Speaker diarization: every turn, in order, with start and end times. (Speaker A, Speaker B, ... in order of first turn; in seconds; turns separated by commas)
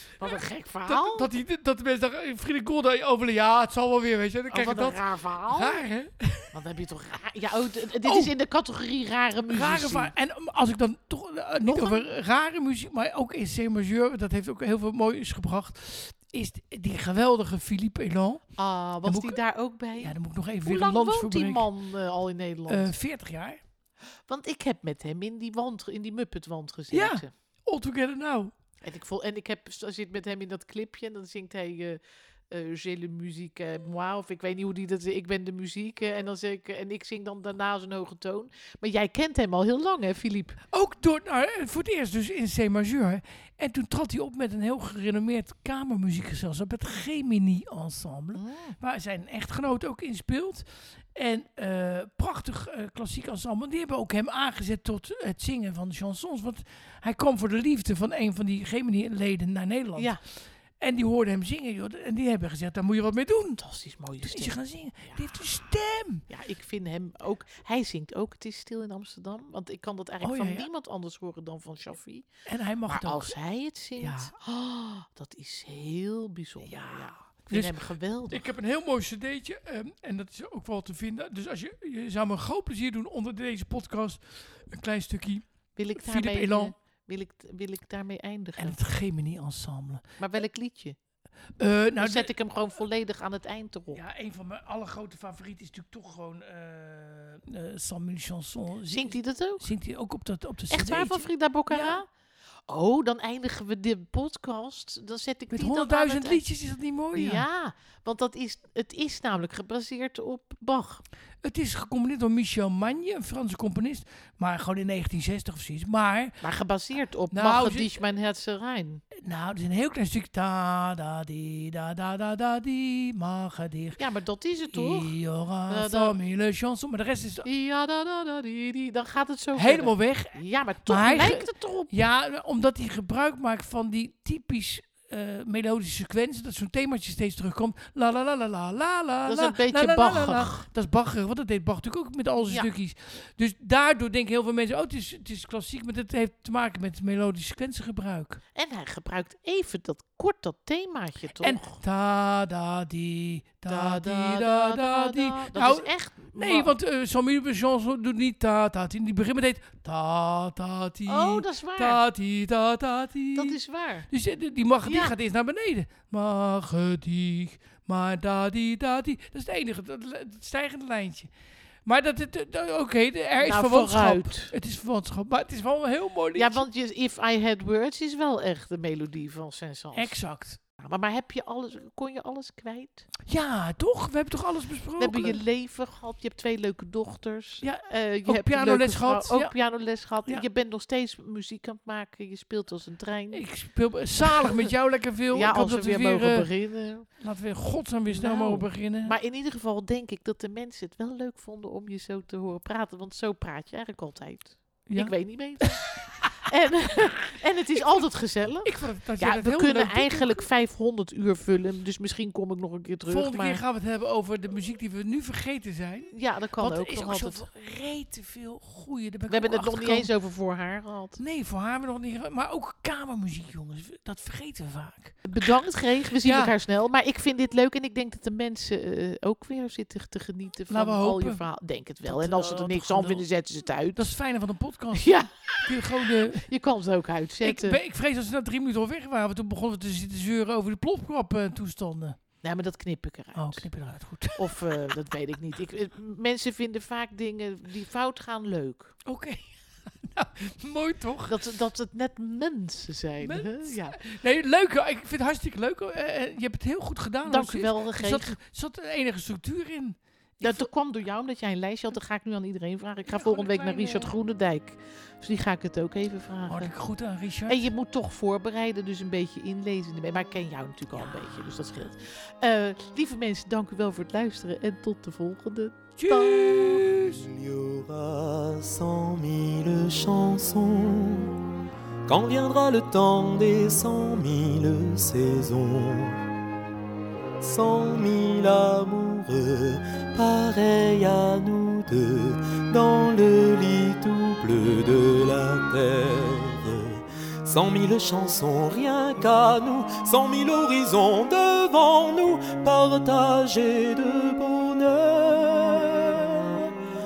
Speaker A: 0.2-1.3, Speaker B: 0.2-6.5, Speaker A: 4.5-5.8, Speaker A: 6.5-10.1, Speaker B: 8.0-8.3, Speaker B: 9.5-18.5, Speaker A: 11.6-12.1, Speaker A: 18.6-22.9, Speaker B: 19.0-19.4, Speaker B: 20.0-21.7, Speaker B: 22.7-23.6, Speaker A: 24.3-27.3, Speaker B: 26.9-28.5, Speaker A: 28.8-40.6, Speaker B: 40.7-60.2, Speaker A: 48.3-48.8, Speaker B: 60.8-63.6, Speaker A: 63.6-65.5, Speaker B: 64.2-66.2, Speaker A: 66.3-72.3, Speaker B: 70.2-70.7, Speaker B: 72.5-73.3, Speaker A: 72.9-78.5, Speaker B: 74.0-74.3, Speaker B: 76.6-77.8, Speaker B: 78.3-86.7, Speaker A: 85.8-88.8, Speaker B: 88.6-90.0, Speaker A: 90.2-91.0, Speaker B: 91.6-92.3, Speaker A: 92.0-94.0, Speaker B: 93.9-102.0, Speaker A: 98.9-99.7, Speaker A: 100.7-102.1, Speaker A: 102.7-106.4, Speaker B: 105.5-107.4, Speaker A: 107.1-111.0, Speaker B: 111.4-116.4, Speaker A: 116.4-119.0, Speaker B: 117.3-117.9, Speaker B: 119.2-124.0, Speaker A: 124.0-126.1, Speaker B: 124.7-127.4, Speaker A: 127.4-131.9, Speaker B: 129.5-148.4, Speaker A: 139.3-140.7, Speaker A: 142.4-142.7, Speaker A: 148.5-151.8, Speaker B: 151.4-163.6, Speaker A: 153.7-156.7, Speaker A: 161.1-162.0, Speaker A: 163.3-164.1, Speaker B: 164.1-171.3, Speaker A: 164.8-165.2, Speaker B: 171.8-176.7, Speaker A: 173.4-174.5, Speaker A: 176.3-180.2, Speaker B: 179.9-180.6, Speaker A: 180.8-183.1, Speaker B: 183.3-185.4, Speaker A: 185.0-193.4, Speaker B: 187.6-189.5, Speaker B: 193.3-196.5, Speaker A: 194.2-194.6, Speaker A: 195.3-197.1, Speaker B: 197.1-199.2, Speaker A: 198.1-213.6, Speaker B: 204.9-206.4, Speaker B: 208.6-210.4, Speaker B: 213.1-220.1, Speaker A: 216.1-217.4, Speaker A: 219.3-221.2, Speaker B: 221.2-225.5, Speaker A: 225.2-234.1, Speaker B: 226.2-226.5, Speaker B: 230.7-231.4, Speaker B: 232.1-233.2, Speaker B: 233.9-236.5, Speaker A: 234.9-235.7, Speaker A: 236.2-237.8, Speaker B: 237.4-242.2, Speaker A: 242.4-243.7, Speaker B: 243.3-244.9, Speaker A: 244.3-249.0, Speaker B: 249.1-251.4, Speaker A: 251.3-254.0, Speaker B: 253.2-260.7, Speaker A: 257.2-258.4, Speaker A: 260.4-266.7, Speaker B: 263.1-264.1, Speaker B: 266.5-267.7, Speaker A: 267.5-276.8, Speaker B: 276.0-277.2, Speaker C: 277.0-281.3, Speaker C: 282.1-286.2, Speaker C: 287.4-306.7